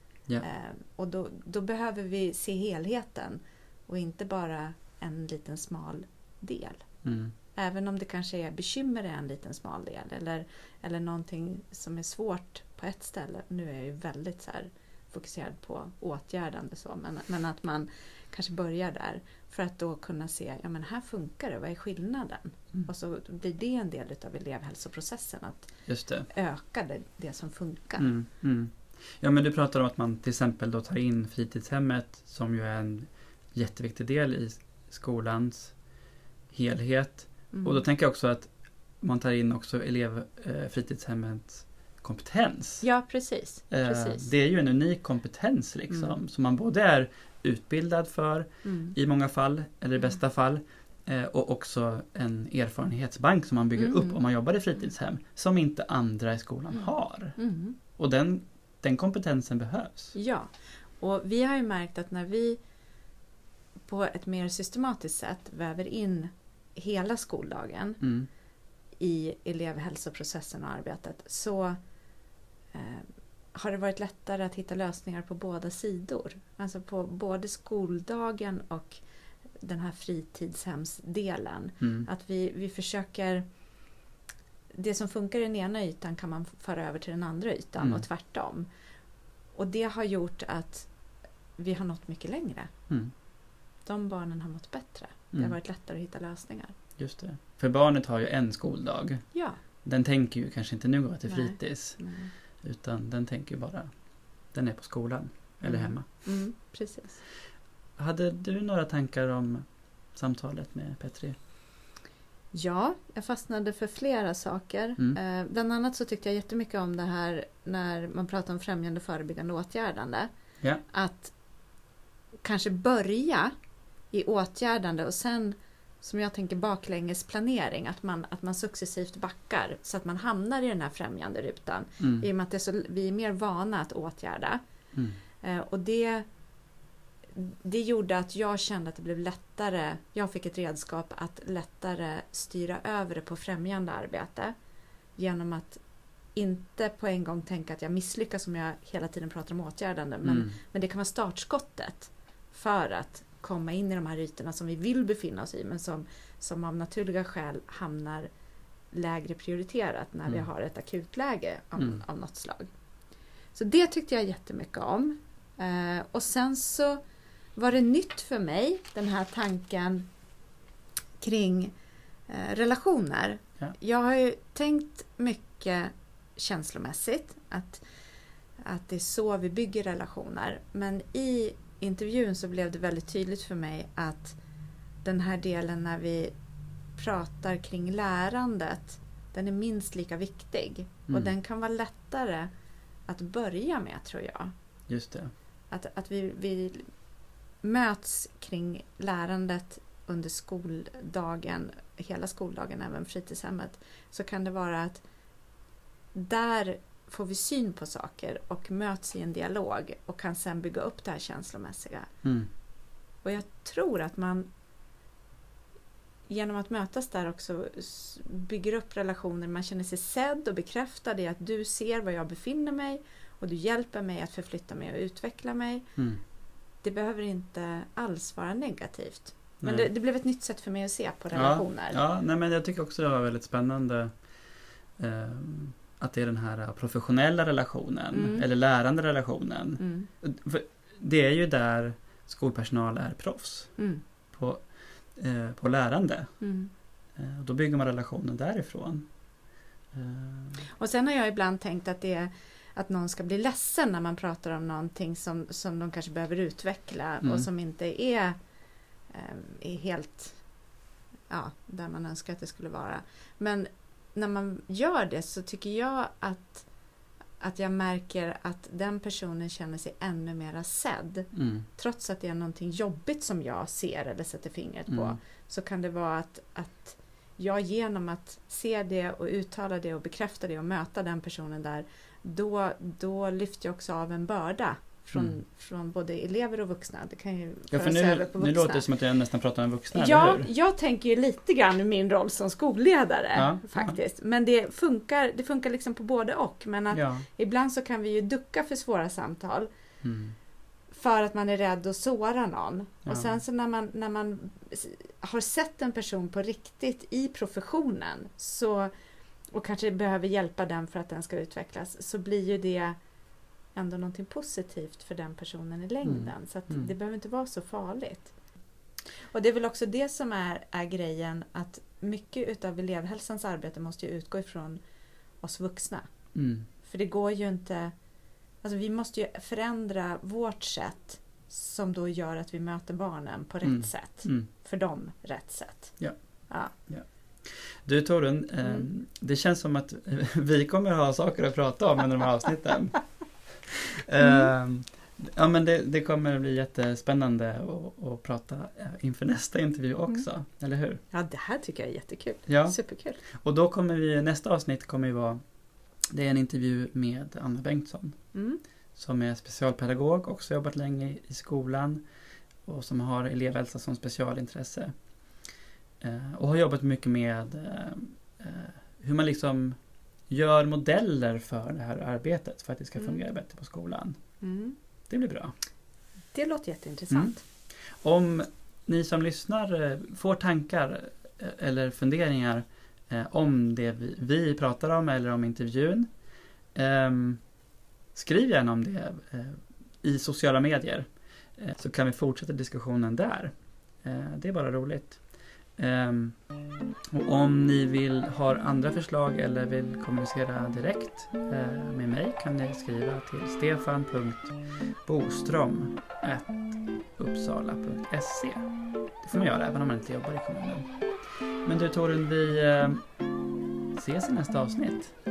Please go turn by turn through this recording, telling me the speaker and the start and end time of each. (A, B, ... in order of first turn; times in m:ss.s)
0:00.4-0:06.8 A
0:07.0-0:07.3 B
0:07.6-0:25.7 A
0:25.9-0:26.3 B
0:26.3-0:28.1 A
0:28.0-0:35.7 B
0:36.5-0:42.8 B
0:37.5-0:37.8 A
0:42.8-0:44.3 A
0:43.7-0:57.4 B
0:48.6-0:49.0 A
0:53.8-0:54.2 A
0:57.4-0:57.8 A
0:58.0-1:00.1 B
1:00.1-1:02.6 A
1:03.9-1:08.0 A
1:08.0-1:08.3 B
1:09.0-1:11.8 A
1:12.7-1:19.0 A
1:19.6-1:23.5 A
1:21.8-1:22.1 B
1:24.7-1:28.7 A
1:27.8-1:28.0 B
1:29.6-1:30.9 A
1:31.6-1:32.7 A
1:33.8-1:36.7 A
1:37.0-1:39.2 B
1:39.3-1:39.6 A
1:39.8-1:42.0 B
1:41.3-1:42.3 A
1:42.6-1:43.9 B
1:44.5-1:46.0 B
1:45.6-1:47.2 A
1:48.0-1:51.4 B
1:52.5-2:00.3 A
2:00.9-2:01.3 A
2:02.4-2:03.5 A
2:04.1-2:14.6 A
2:12.0-2:12.3 B
2:15.4-2:16.2 A
2:17.3-2:24.5 A
2:25.2-2:25.8 A
2:26.3-2:38.3 A
2:30.2-2:30.5 B
2:38.9-2:42.7 A
2:43.5-2:47.0 A
2:47.6-2:50.1 A
2:51.2-2:51.7 A
2:52.3-2:57.8 A
2:58.6-3:04.4 A
3:05.0-3:06.3 A
3:07.0-3:12.5 A
3:13.1-3:14.5 A
3:14.9-3:15.3 B
3:15.7-3:16.9 A
3:17.6-3:25.0 A
3:26.1-3:32.1 A
3:32.2-3:32.5 B
3:33.2-3:34.5 A
3:36.3-3:45.9 A
3:46.8-3:52.0 A
3:49.6-3:49.9 B
3:51.3-3:54.2 B
3:55.0-4:03.8 B
3:58.1-3:58.4 A
3:59.8-4:00.1 A
4:03.8-4:04.0 A
4:04.3-4:06.3 B
4:06.4-4:06.7 A
4:07.2-4:09.1 B
4:09.9-4:10.6 B
4:10.8-4:18.4 A
4:17.2-4:17.5 B
4:19.1-4:20.4 A
4:21.3-4:26.7 A
4:27.4-4:48.8 A
4:31.3-4:31.6 B
4:34.9-4:35.2 B
4:47.7-4:50.5 B
4:49.9-4:59.7 A
4:53.4-4:54.0 B
4:56.9-4:57.2 B
5:00.0-5:00.3 B
5:00.9-5:08.9 A
5:03.0-5:03.3 B
5:09.5-5:13.0 A
5:13.7-5:18.3 A
5:16.0-5:16.9 B
5:19.3-5:24.8 A
5:25.4-5:26.1 A
5:26.3-5:26.6 B
5:26.8-5:27.9 A
5:28.6-5:36.7 A
5:33.6-5:34.5 B
5:36.0-5:43.1 B
5:43.7-5:51.0 B
5:44.2-5:44.5 A
5:51.1-5:53.2 A
5:52.5-5:52.8 B
5:53.3-5:55.4 B
5:56.1-5:58.2 B
5:58.3-5:58.6 A
5:59.0-6:02.0 B
6:02.6-6:04.9 B
6:06.0-6:09.8 B
6:10.3-6:14.2 B
6:14.4-6:14.8 A
6:15.1-6:15.5 B
6:16.3-6:17.4 A
6:18.0-6:26.1 B
6:26.7-6:27.4 B
6:28.1-6:35.2 B
6:35.8-6:36.4 B
6:37.1-6:48.7 B
6:49.2-6:50.9 B
6:51.6-6:53.0 B
6:53.9-6:55.1 B